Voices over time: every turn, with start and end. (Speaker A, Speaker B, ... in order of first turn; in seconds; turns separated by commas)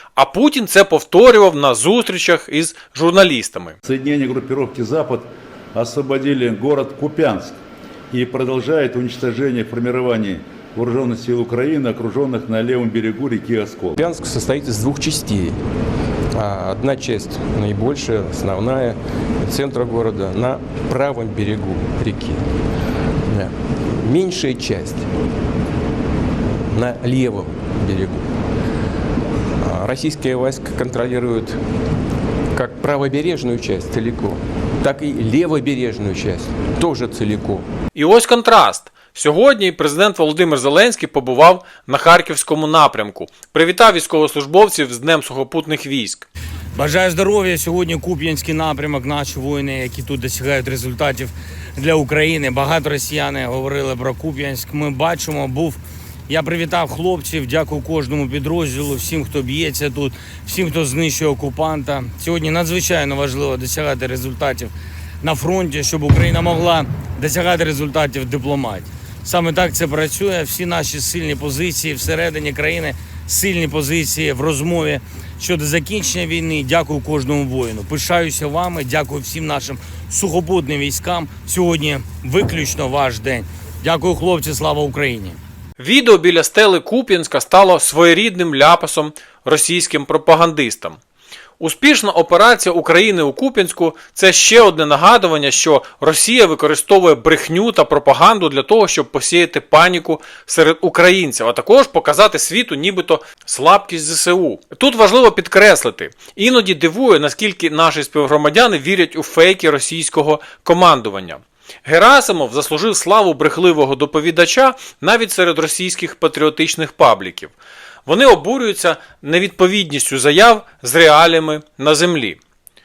Speaker A: 0.1-3.8, Speaker B: 3.8-7.6, Speaker B: 8.1-14.0, Speaker C: 14.0-15.6, Speaker C: 16.3-22.4, Speaker C: 23.3-25.1, Speaker C: 26.7-28.2, Speaker C: 29.6-31.6, Speaker C: 32.5-37.6, Speaker A: 37.9-46.3, Speaker D: 46.8-85.4, Speaker A: 85.8-91.0, Speaker A: 91.6-117.5, Speaker A: 118.0-122.4